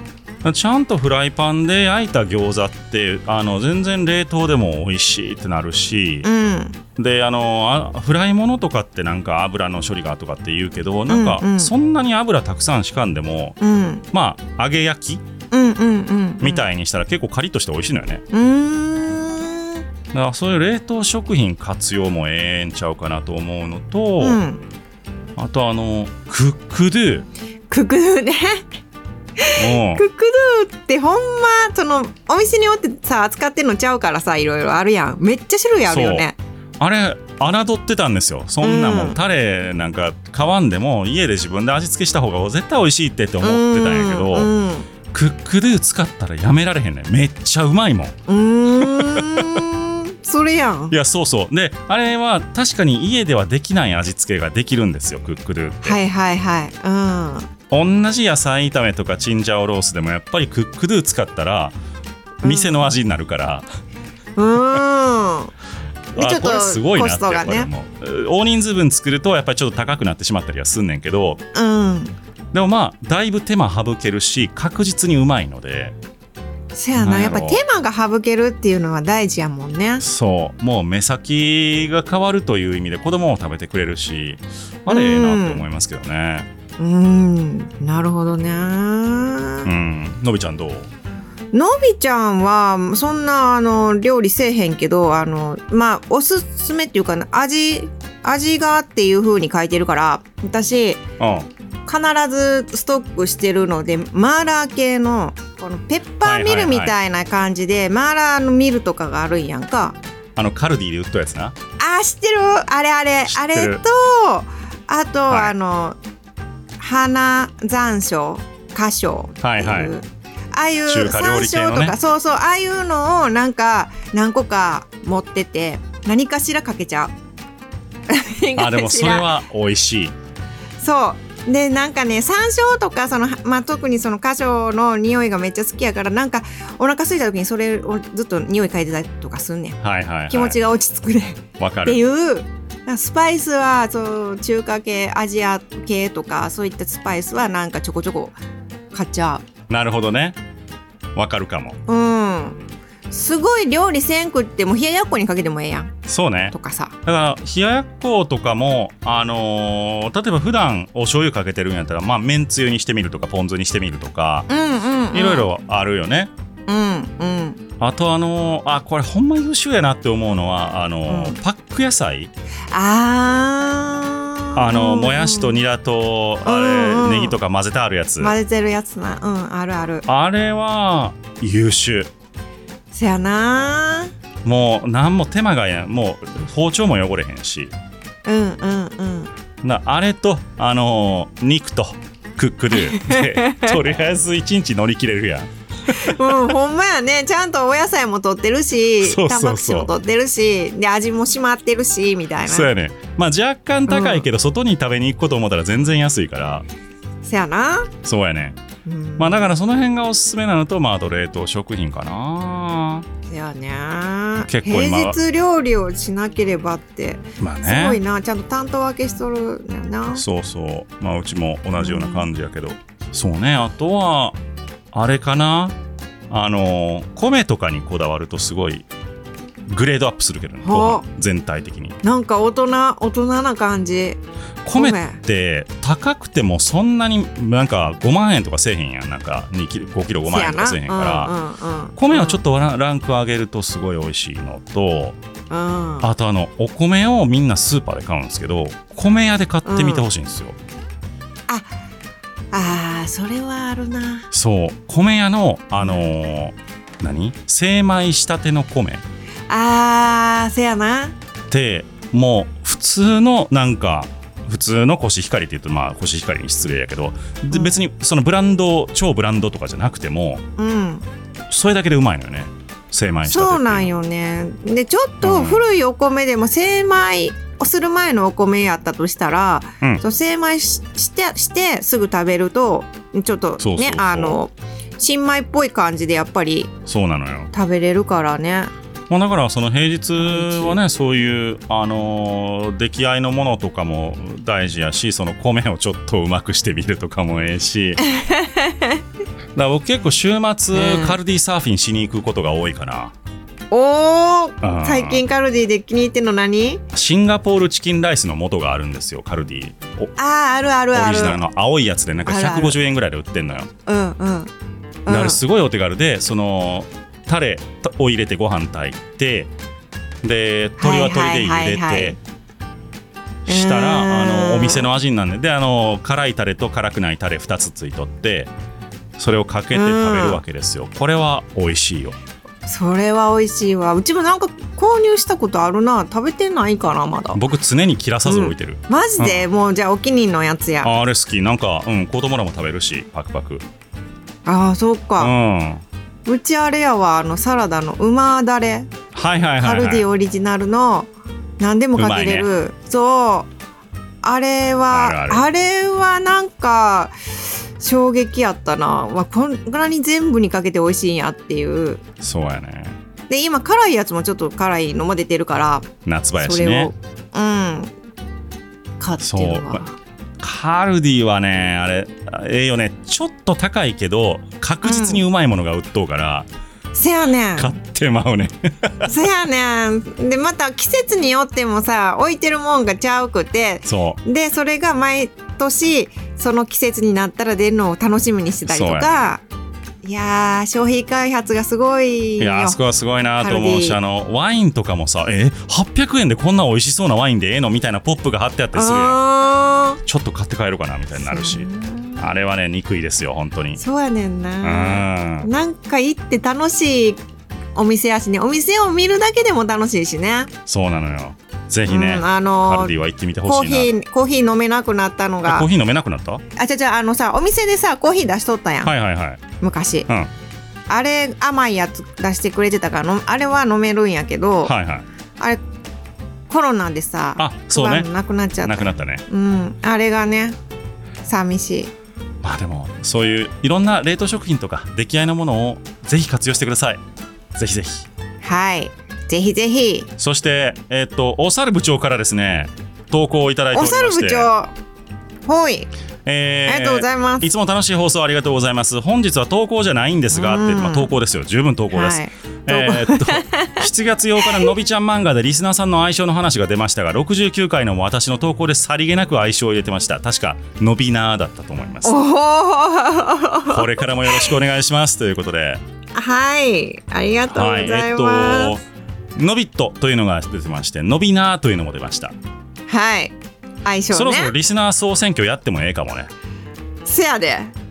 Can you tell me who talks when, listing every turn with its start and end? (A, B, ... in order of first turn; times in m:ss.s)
0:00.4-0:06.3 A
0:06.2-0:06.8 B
0:07.0-0:13.6 A
0:11.1-0:11.7 B
0:13.6-0:14.0 B
0:14.1-0:15.2 A
0:15.5-0:16.6 B
0:16.4-0:18.2 A
0:18.3-0:19.8 B
0:20.1-0:24.4 A
0:24.2-0:24.6 B
0:25.4-0:27.3 A
0:27.7-0:28.6 B
0:29.4-0:36.4 B
0:29.6-0:30.0 A
0:35.9-0:36.3 A
0:36.8-0:44.5 A
0:38.6-0:39.2 B
0:43.4-0:44.9 B
0:45.1-0:48.1 A
0:48.3-0:50.9 B
0:48.8-0:49.6 A
0:50.9-0:56.0 A
0:55.8-0:57.5 B
0:57.7-1:01.8 A
1:02.4-1:02.9 B
1:02.4-1:03.6 A
1:04.4-1:05.5 B
1:06.1-1:07.7 B
1:06.2-1:11.4 A
1:11.5-1:12.1 B
1:12.5-1:16.0 A
1:16.7-1:20.0 B
1:17.0-1:17.6 A
1:20.0-1:26.5 A
1:24.9-1:25.6 B
1:26.8-1:29.7 B
1:29.6-1:30.9 A
1:31.5-1:41.0 B
1:41.2-1:41.5 A
1:41.8-1:50.0 B
1:46.2-1:46.9 A
1:50.4-1:51.5 A
1:51.8-1:56.0 B
1:53.3-1:53.8 A
1:55.3-1:55.5 A
1:56.8-2:07.1 B
1:59.4-1:59.9 A
2:00.9-2:02.0 A
2:08.1-2:09.3 B
2:08.6-2:10.1 A
2:10.8-2:19.8 B
2:19.8-2:20.6 A
2:20.3-2:28.4 B
2:21.6-2:22.0 A
2:28.9-2:29.4 B
2:29.7-2:30.4 A
2:31.1-2:31.8 A
2:31.9-2:32.6 B
2:33.1-2:35.9 B
2:36.1-2:36.5 A
2:36.5-2:36.9 B
2:37.0-2:44.5 A
2:44.5-2:45.5 B
2:45.1-2:46.3 A
2:46.7-2:47.6 B
2:47.8-2:52.3 A
2:51.1-2:51.4 B
2:52.7-2:55.6 B
2:54.5-2:58.3 A
2:56.4-2:57.4 B
2:58.2-3:00.0 B
3:00.1-3:02.1 A
3:02.9-3:04.1 B
3:04.4-3:07.7 A
3:08.2-3:09.3 B
3:09.6-3:16.2 A
3:12.8-3:13.8 B
3:15.9-3:22.7 B
3:19.0-3:19.9 A
3:22.4-3:26.7 A
3:23.9-3:24.3 B
3:27.2-3:27.9 B
3:28.0-3:28.6 A
3:28.8-3:29.5 B
3:29.2-3:33.0 A
3:33.3-3:40.2 B
3:34.5-3:35.2 A
3:37.4-3:38.0 A
3:40.1-3:44.4 A
3:41.8-3:42.3 B
3:44.9-3:45.8 A
3:46.3-3:48.9 A
3:49.7-3:52.0 A
3:50.6-3:51.0 B
3:52.0-3:54.2 B
3:54.6-4:01.3 A
3:54.7-3:55.2 B
4:00.2-4:02.4 B
4:02.0-4:05.2 A
4:05.5-4:06.1 B
4:06.0-4:10.6 A
4:09.6-4:10.0 B
4:12.5-4:14.2 B
4:14.3-4:19.0 A
4:19.5-4:21.2 B
4:21.5-4:30.4 A
4:30.6-4:31.0 B
4:31.5-4:33.9 A
4:33.3-4:46.7 B
4:35.2-4:35.6 A
4:43.6-4:44.4 A
4:46.9-4:47.5 A
4:47.5-4:48.7 B
4:49.1-4:58.0 A
4:50.2-4:50.8 B
4:58.0-4:59.0 B
4:59.5-5:03.1 A
5:00.7-5:01.2 B
5:03.7-5:06.8 B
5:04.6-5:05.2 A
5:06.9-5:10.1 A
5:10.2-5:11.4 B
5:10.9-5:13.7 A
5:12.2-5:12.8 B
5:13.8-5:14.5 B
5:15.0-5:15.4 B
5:15.1-5:19.5 A
5:20.2-5:22.2 A
5:20.8-5:22.2 B
5:23.4-5:28.5 A
5:23.5-5:24.9 B
5:29.2-5:32.2 A
5:29.7-5:30.4 B
5:32.6-5:37.4 B
5:37.3-5:39.5 A
5:38.2-5:40.9 B
5:40.8-5:43.6 A
5:44.4-5:45.3 B
5:45.2-5:45.8 A
5:46.2-5:48.9 B
5:49.1-5:50.0 A
5:49.6-5:53.5 B
5:52.0-5:52.5 A
5:54.2-5:57.1 B
5:54.9-5:55.4 A
5:57.8-6:02.0 B
6:02.2-6:03.0 A
6:03.3-6:07.9 B
6:06.0-6:06.9 A
6:09.0-6:09.9 B
6:09.2-6:09.8 A
6:10.4-6:16.5 A
6:14.8-6:15.2 B
6:16.9-6:17.7 B
6:17.6-6:19.1 A
6:19.1-6:29.4 B
6:23.8-6:24.2 A
6:28.7-6:29.1 A
6:30.0-6:32.8 B
6:32.4-6:39.2 A
6:33.4-6:34.0 B
6:38.7-6:40.0 B
6:40.0-6:41.7 A
6:41.2-6:42.2 B
6:42.2-6:43.8 A
6:43.8-6:47.2 B
6:44.6-6:45.5 A
6:47.7-6:50.5 B
6:50.7-6:53.9 A
6:51.8-6:55.7 B
6:55.4-6:56.4 A
6:56.6-6:58.9 B
6:58.8-6:59.4 A
6:59.6-7:00.1 B
7:00.9-7:04.7 B
7:04.6-7:05.0 A
7:06.5-7:10.6 B
7:07.4-7:08.1 A
7:08.6-7:09.2 A
7:11.2-7:11.9 B
7:12.4-7:17.0 A
7:17.5-7:18.1 A
7:18.4-7:20.1 B
7:20.2-7:24.5 A
7:23.7-7:24.7 B
7:25.5-7:25.9 B
7:26.2-7:42.1 A
7:26.6-7:27.5 B
7:30.3-7:31.1 B
7:31.9-7:33.8 B
7:34.4-7:34.7 B
7:42.0-7:44.5 B
7:43.7-7:45.8 A
7:46.1-7:48.8 B
7:47.5-7:48.8 A
7:49.4-7:52.3 A
7:52.9-7:54.5 B
7:54.1-7:56.3 A
7:57.0-7:57.7 B